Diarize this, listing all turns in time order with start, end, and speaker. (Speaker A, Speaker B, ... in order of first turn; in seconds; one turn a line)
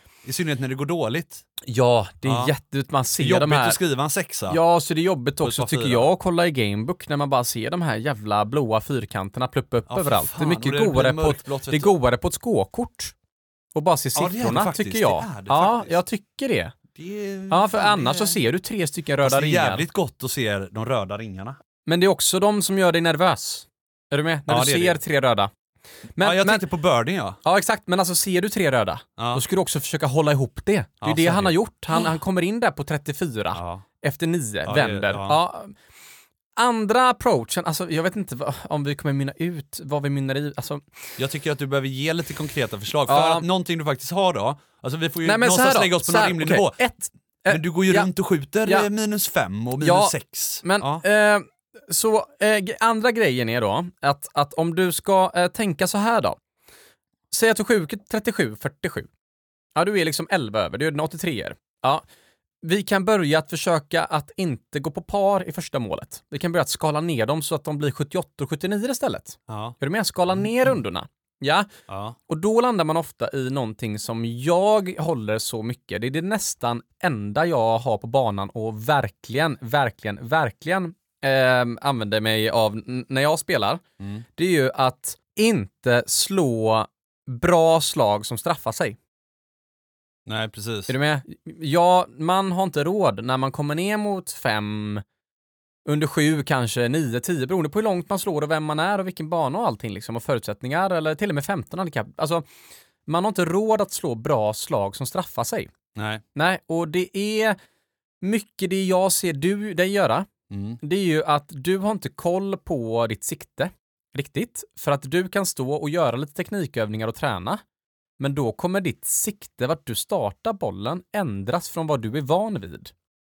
Speaker A: 0.2-1.4
Speaker B: 1.6-3.8
Speaker A: 2.2-2.5
Speaker A: 3.2-4.6
Speaker B: 4.5-13.1
Speaker A: 5.4-6.1
Speaker A: 9.9-11.9
Speaker B: 13.7-16.8
Speaker A: 14.1-16.0
Speaker A: 16.9-18.4
Speaker B: 17.5-19.8
Speaker A: 19.2-21.6
Speaker B: 21.9-25.5
Speaker A: 24.5-25.0
Speaker B: 26.1-26.6
Speaker A: 26.2-27.4
Speaker B: 27.4-35.7
Speaker A: 29.2-29.4
Speaker A: 31.0-32.1
Speaker A: 33.5-33.8
Speaker A: 34.6-35.4
Speaker B: 36.5-40.9
Speaker A: 41.2-46.8
Speaker B: 43.1-43.5
Speaker B: 45.2-48.1
Speaker A: 47.5-51.0
Speaker B: 49.8-56.4
Speaker B: 57.3-59.1
Speaker B: 59.8-62.0
Speaker B: 62.6-71.7
Speaker A: 69.5-69.8
Speaker A: 70.3-70.7
Speaker A: 71.9-72.2
Speaker B: 72.3-83.8
Speaker A: 84.0-84.2
Speaker B: 84.4-89.0
Speaker A: 90.2-90.9
Speaker B: 90.9-95.0
Speaker B: 95.8-102.5
Speaker B: 103.0-105.7
Speaker A: 106.0-106.2
Speaker B: 106.3-107.6
Speaker B: 108.2-110.3
Speaker A: 110.5-110.8
Speaker B: 110.8-117.6
Speaker B: 118.2-122.9